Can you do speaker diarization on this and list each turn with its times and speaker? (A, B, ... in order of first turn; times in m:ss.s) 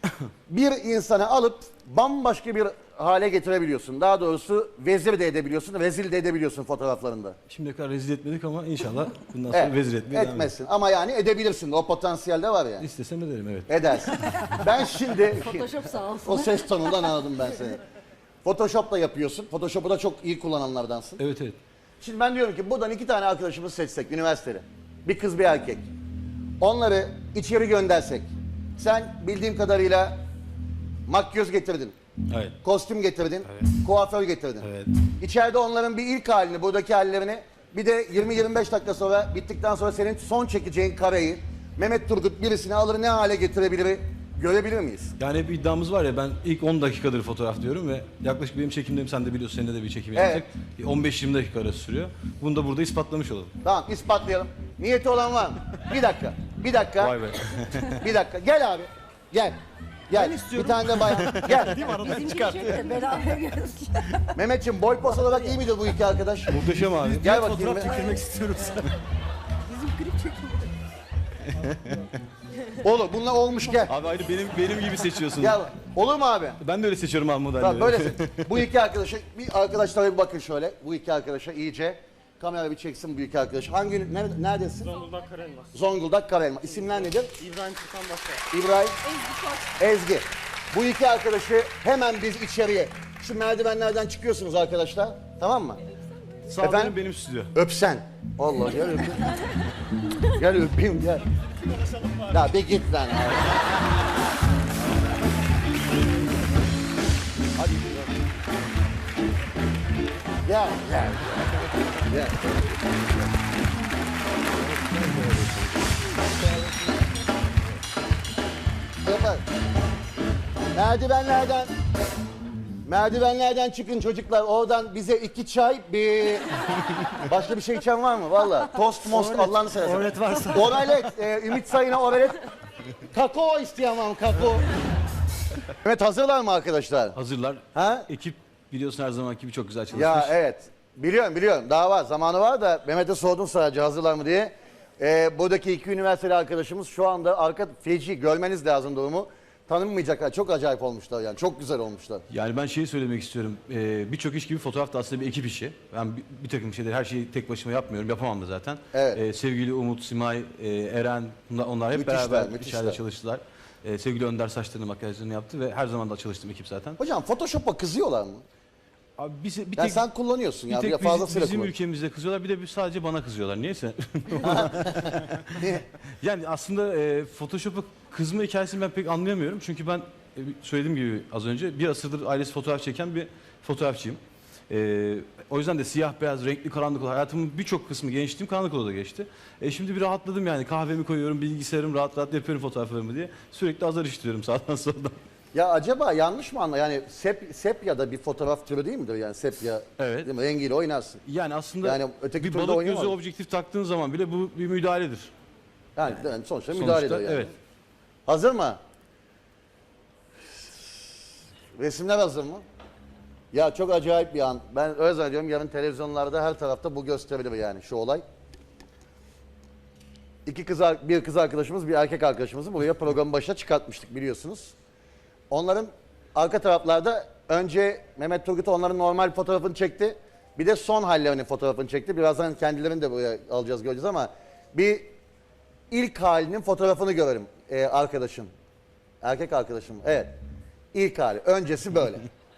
0:00.5-0:07.4 A
0:07.5-0:10.5 B
0:09.5-0:12.8 A
0:12.8-0:14.8 B
0:13.7-0:17.8 A
0:15.4-0:16.5 C
0:18.4-0:21.2 A
0:21.2-0:21.6 B
0:22.0-0:25.9 A
0:26.6-0:30.2 A
0:31.1-0:32.0 A
0:32.3-0:32.6 B
0:32.6-0:45.1 A
0:34.6-0:34.9 B
0:45.2-0:53.5 B
0:50.2-0:50.4 A
0:53.6-0:57.2 A
0:57.0-0:58.0 B
0:57.9-0:59.6 A
1:00.1-1:01.9 A
1:00.4-1:01.8 B
1:01.8-1:04.3 C
1:04.3-1:06.6 A
1:06.5-1:08.8 B
1:07.2-1:08.2 A
1:08.1-1:08.8 C
1:09.7-1:10.7 C
1:11.5-1:12.1 B
1:12.7-1:13.9 A
1:13.9-1:15.6 B
1:15.4-1:16.6 A
1:16.6-1:18.6 B
1:17.6-1:24.9 A
1:24.8-1:25.7 D
1:25.7-1:27.4 A
1:26.8-1:28.4 D
1:28.5-1:29.0 A
1:29.8-1:35.8 A
1:36.5-1:37.5 B
1:36.6-1:37.0 A
1:37.5-1:39.3 A
1:40.2-1:41.2 A
1:42.2-1:43.6 A
1:47.6-1:48.0 A
1:50.4-1:52.5 A
1:54.8-1:55.5 B
1:59.0-1:59.4 A
2:00.8-2:01.7 A
2:02.8-2:06.5 A
2:07.1-2:12.4 A
2:10.0-2:10.3 B
2:13.1-2:14.6 A
2:15.8-2:17.2 A
2:17.2-2:20.3 B
2:17.7-2:18.1 A
2:19.9-2:32.2 A
2:32.3-2:47.0 B
2:38.9-2:39.2 A
2:41.9-2:43.0 A
2:47.0-2:48.4 A
2:49.2-2:50.0 B
2:49.8-2:51.7 A
2:50.7-2:55.6 B
2:54.4-2:54.8 A
2:55.6-2:55.8 A
2:56.2-3:15.2 B
3:15.5-3:21.2 A
3:20.0-3:20.3 B
3:21.2-3:25.3 B
3:21.8-3:23.2 A
3:26.0-3:27.5 A
3:26.7-3:27.5 B
3:28.3-3:28.8 A
3:31.8-3:32.6 A
3:33.5-3:38.2 A
3:40.5-3:44.7 A
3:45.5-3:55.1 A
3:55.9-3:58.5 A
3:59.2-4:00.4 A
4:00.9-4:02.3 A